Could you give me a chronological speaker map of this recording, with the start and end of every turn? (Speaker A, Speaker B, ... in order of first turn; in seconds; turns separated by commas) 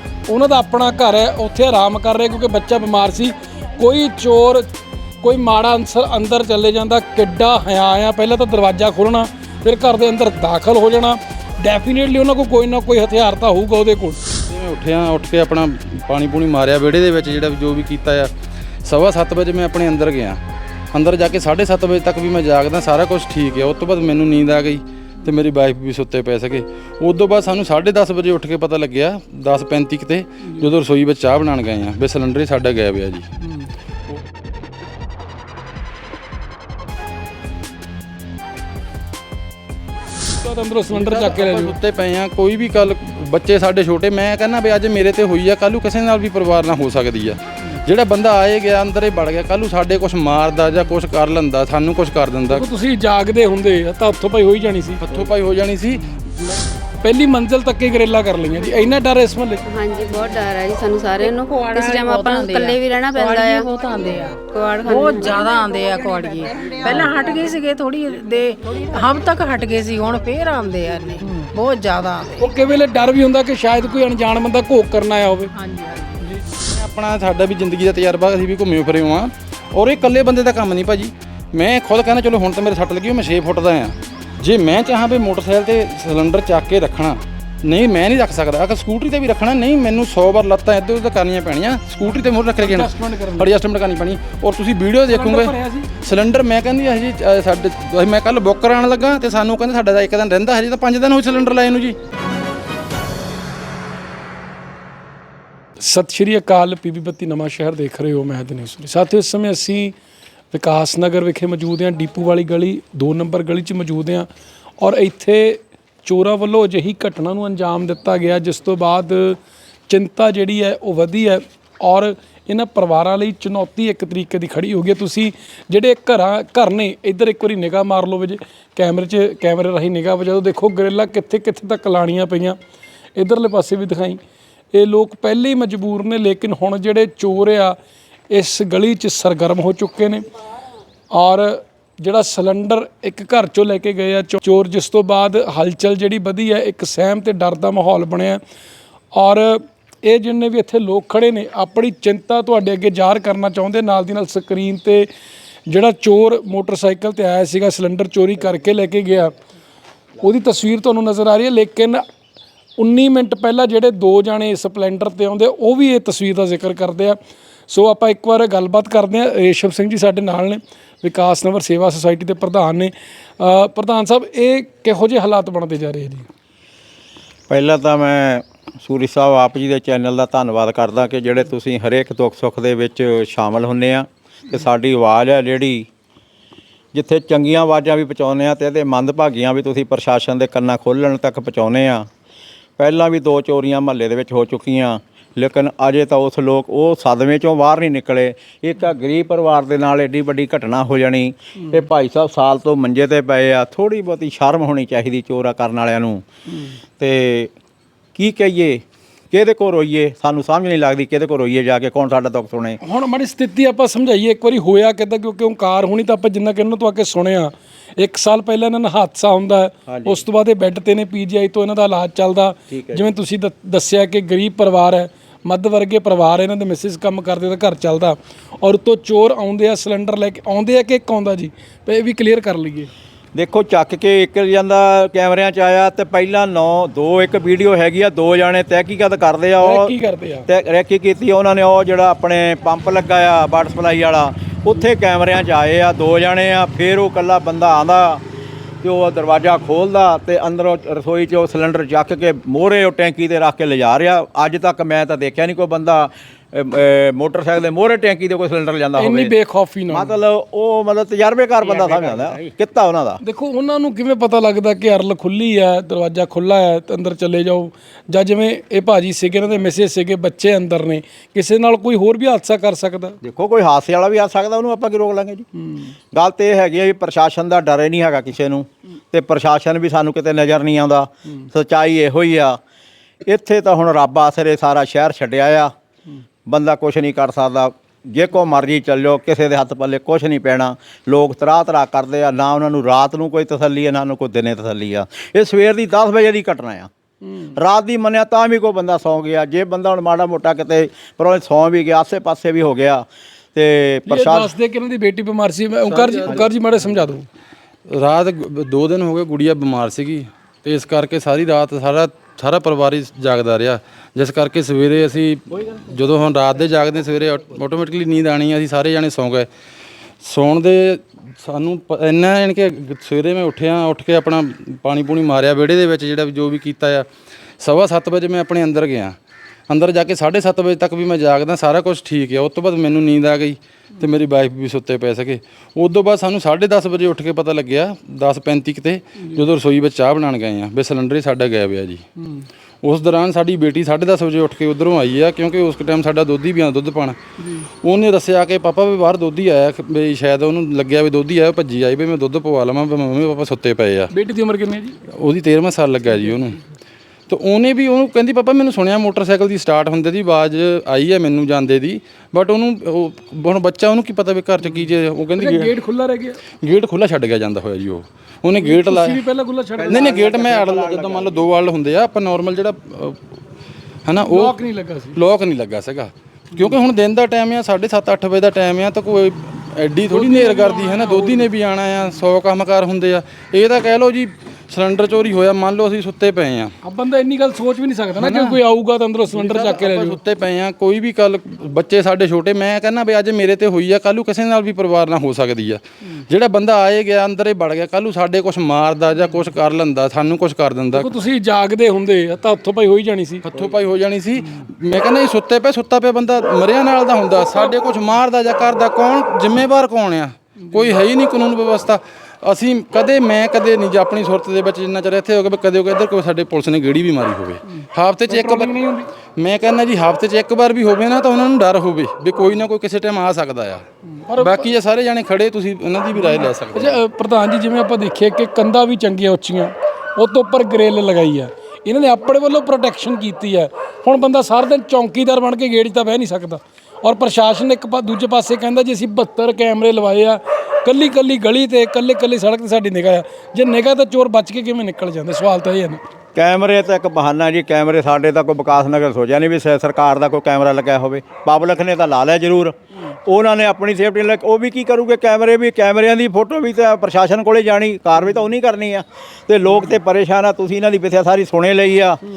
Speaker A: 0.3-4.7, Speaker A: 5.2-14.2, Speaker B: 14.5-18.3, Speaker B: 18.8-20.4, Speaker B: 20.9-33.3, Speaker A: 40.4-41.7, Speaker B: 40.9-52.6, Speaker A: 52.5-55.0, Speaker B: 55.0-56.1, Speaker A: 57.0-59.6, Speaker C: 59.6-63.7, Speaker D: 61.2-72.5, Speaker C: 64.4-65.5, Speaker A: 72.4-75.5, Speaker D: 75.5-76.2, Speaker A: 76.2-76.4, Speaker B: 76.5-102.0, Speaker A: 92.6-93.5, Speaker A: 95.1-95.9, Speaker A: 105.8-109.9, Speaker A: 110.5-114.3, Speaker A: 114.8-132.6, Speaker A: 133.2-134.2, Speaker A: 134.7-137.8, Speaker A: 138.3-140.2, Speaker A: 141.1-148.4, Speaker A: 149.1-155.1, Speaker A: 155.7-159.3, Speaker A: 160.2-162.0, Speaker A: 162.8-167.2, Speaker A: 167.7-176.3, Speaker E: 177.5-185.9, Speaker E: 186.9-192.1, Speaker E: 192.8-206.2, Speaker E: 207.0-207.5, Speaker E: 208.2-212.8, Speaker A: 212.8-232.9, Speaker E: 219.9-220.2, Speaker E: 222.7-223.1, Speaker E: 233.3-239.9, Speaker A: 239.6-240.5, Speaker E: 240.5-248.2, Speaker E: 248.8-259.3, Speaker A: 259.0-260.1, Speaker E: 259.9-263.2, Speaker A: 263.2-273.2, Speaker E: 273.2-275.4, Speaker E: 276.1-282.6, Speaker E: 283.2-285.7, Speaker E: 286.4-296.9, Speaker E: 297.6-304.5, Speaker A: 304.1-307.2, Speaker B: 305.9-306.5, Speaker B: 307.9-319.5, Speaker B: 320.2-327.0, Speaker B: 327.6-329.1, Speaker B: 329.7-342.0, Speaker A: 342.2-342.4, Speaker B: 342.8-347.1, Speaker A: 347.4-347.7, Speaker B: 347.8-354.1, Speaker A: 354.1-355.0, Speaker B: 355.1-356.6, Speaker B: 357.3-365.7, Speaker A: 365.4-366.4, Speaker B: 366.6-369.2, Speaker A: 368.6-370.2, Speaker E: 369.8-371.4, Speaker B: 369.9-373.2, Speaker B: 374.0-374.6, Speaker A: 374.2-375.2, Speaker B: 375.1-386.7, Speaker A: 380.1-381.5, Speaker A: 386.8-390.2, Speaker B: 388.2-388.6, Speaker B: 389.3-401.1, Speaker A: 400.9-403.4, Speaker B: 403.4-418.7, Speaker A: 407.4-407.7, Speaker A: 418.3-419.1, Speaker B: 419.4-423.8, Speaker A: 424.1-424.7, Speaker B: 424.4-427.0, Speaker A: 426.2-446.0, Speaker E: 446.3-462.2